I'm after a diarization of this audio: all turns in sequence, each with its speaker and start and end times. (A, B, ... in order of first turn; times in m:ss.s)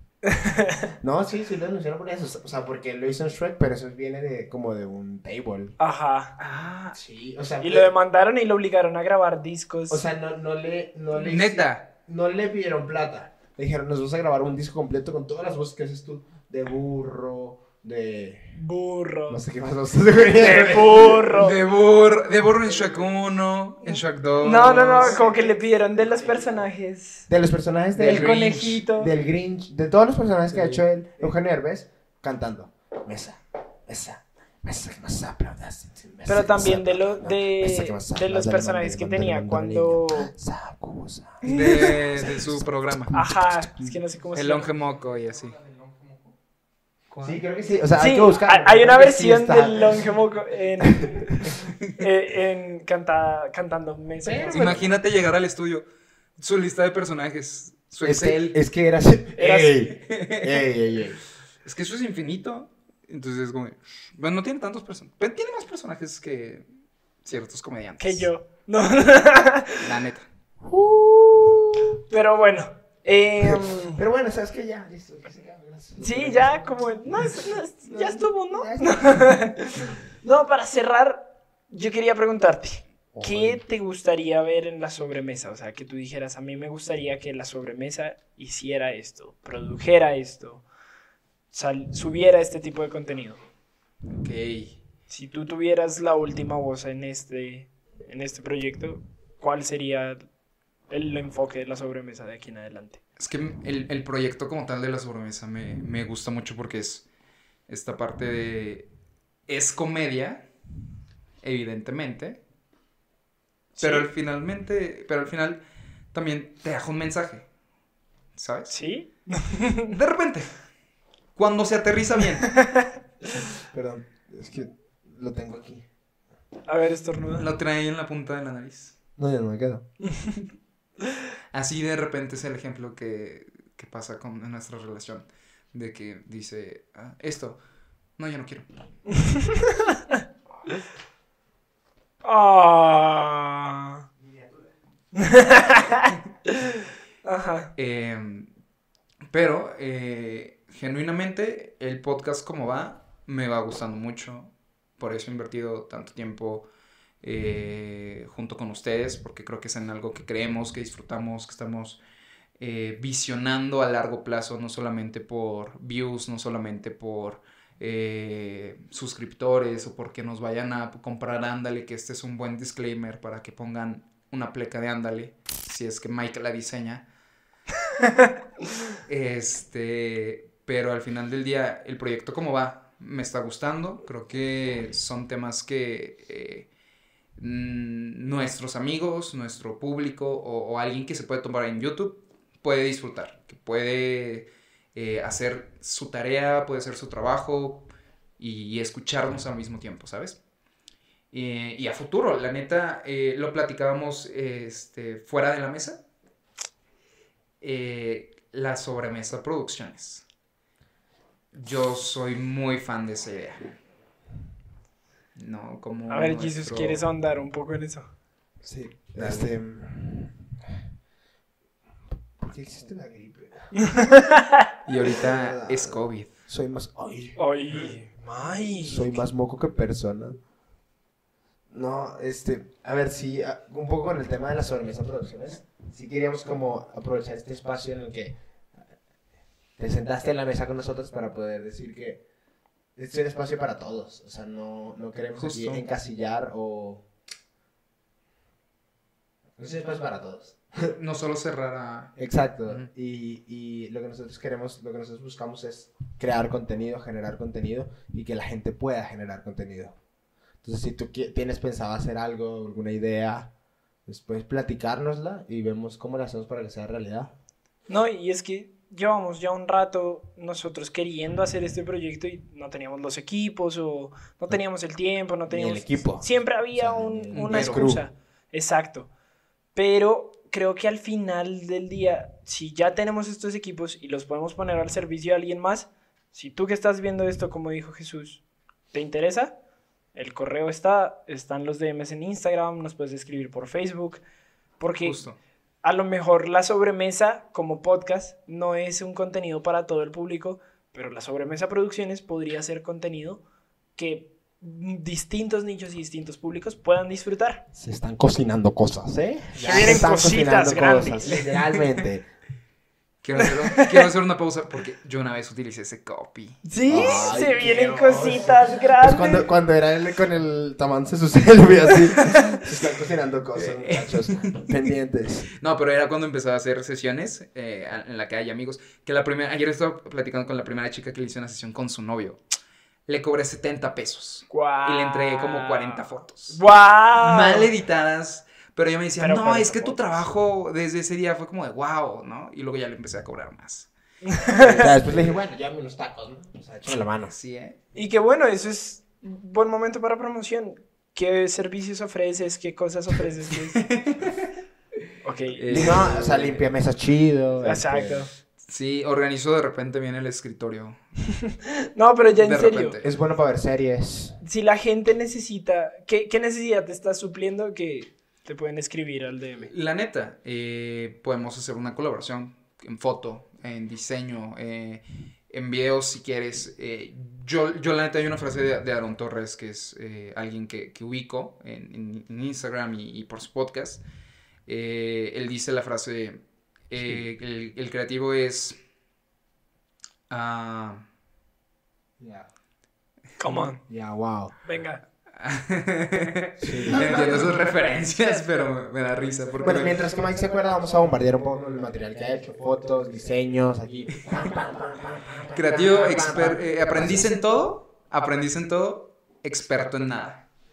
0:00.3-0:00.9 A
0:01.0-0:05.8 B
0:05.8-0:06.3 A
0:06.4-0:07.0 C
0:06.9-0:07.9 B
0:07.6-0:10.0 A
0:09.9-0:18.6 B
0:11.1-0:11.9 C
0:18.6-0:19.4 A
0:19.3-0:21.3 B
0:20.4-0:21.6 A
0:21.3-0:25.2 C
0:24.4-0:27.3 A
0:25.0-0:25.5 B
0:27.3-0:44.0 B
0:28.0-0:28.8 C
0:28.0-0:29.1 A
0:30.5-0:30.8 C
0:36.3-0:40.3 A
0:41.4-0:43.2 C
0:41.5-0:41.9 A
0:43.1-0:44.7 A
0:44.3-0:45.7 C
0:47.1-0:47.4 C
0:47.2-0:50.1 B
0:48.0-0:54.8 A
0:50.8-0:51.5 B
0:51.7-0:52.0 C
0:54.2-0:54.9 B
0:54.5-0:55.8 C
0:56.4-0:58.6 C
0:58.0-1:01.2 B
0:59.4-0:59.8 A
0:59.9-1:00.6 C
1:01.6-1:06.6 C
1:07.2-1:08.3 C
1:08.0-1:09.8 A
1:09.8-1:10.3 C
1:10.6-1:12.0 B
1:12.1-1:14.0 A
1:13.4-1:19.4 B
1:16.0-1:30.6 A
1:23.1-1:23.6 B
1:31.5-1:33.4 A
1:34.1-1:34.8 C
1:35.1-1:40.2 A
1:40.9-1:43.0 A
1:43.2-1:47.1 C
1:47.7-1:48.9 C
1:49.5-1:50.5 C
1:51.4-1:52.4 C
1:53.8-1:55.6 C
1:53.8-1:54.1 A
1:56.1-1:57.5 C
1:58.4-1:58.7 C
1:58.7-1:59.9 A
1:59.9-2:00.5 C
2:01.4-2:02.6 C
2:03.7-2:05.8 B
2:06.7-2:07.5 A
2:07.4-2:09.0 C
2:09.2-2:09.8 B
2:10.1-2:10.4 A
2:11.5-2:17.6 C
2:18.2-2:18.7 C
2:19.2-2:20.2 A
2:22.2-2:24.0 A
2:25.1-2:27.7 A
2:27.8-2:28.5 C
2:29.3-2:36.7 C
2:37.2-2:42.0 C
2:42.6-2:57.0 C
2:59.1-3:06.7 C
3:07.4-3:17.9 C
3:18.4-3:20.4 C
3:21.3-3:26.0 C
3:27.6-3:30.2 C
3:31.5-3:33.8 C
3:35.4-3:37.0 C
3:36.1-3:38.1 A
3:38.6-3:40.4 B
3:39.2-3:39.5 C
3:42.4-3:43.7 B
3:43.8-3:44.6 A
3:44.9-3:46.3 C
3:45.1-3:48.0 B
3:47.4-3:49.2 A
3:48.8-3:50.4 B
3:51.7-3:58.4 B
3:59.8-4:02.2 B
4:03.0-4:07.0 B
4:05.4-4:05.8 C
4:09.6-4:10.9 B
4:10.9-4:12.9 C
4:12.2-4:20.0 B
4:20.6-4:23.5 B
4:24.1-4:27.3 B
4:27.9-4:39.1 A
4:35.5-4:38.0 B
4:37.3-4:38.0 C
4:39.8-4:48.4 A
4:48.9-4:49.6 A
4:50.2-4:54.2 A
4:54.8-4:55.2 A
4:55.0-4:55.4 C
4:55.8-5:03.4 A
5:04.0-5:07.6 A
5:07.7-5:12.3 B
5:09.6-5:10.1 C
5:09.6-5:11.3 A
5:11.3-5:11.8 C
5:13.2-5:17.1 C
5:13.4-5:14.1 A
5:16.6-5:19.5 A
5:16.9-5:25.5 B
5:23.6-5:24.6 C
5:25.6-5:32.4 C
5:33.1-5:36.6 C
5:34.5-5:37.7 A
5:37.2-5:43.9 C
5:39.2-5:40.0 A
5:44.3-5:44.9 A
5:44.5-5:45.3 C
5:44.8-5:47.4 B
5:47.3-5:47.8 C
5:47.9-5:53.8 A
5:53.8-5:54.5 C
5:55.2-5:56.0 A
5:55.6-5:56.7 C
5:55.7-5:58.3 B
5:57.6-5:58.3 A
5:58.7-6:01.0 C
6:01.4-6:03.0 A
6:02.3-6:03.1 C
6:03.0-6:04.4 B
6:04.4-6:09.7 A
6:09.7-6:24.0 C
6:24.7-6:28.8 C
6:27.0-6:27.2 B
6:30.3-6:31.0 C
6:32.2-6:32.5 B
6:33.4-6:33.8 A
6:33.9-6:34.6 B
6:34.6-6:35.0 A
6:35.4-6:40.0 C
6:36.6-6:37.5 B
6:39.6-6:47.3 B
6:45.5-6:50.5 C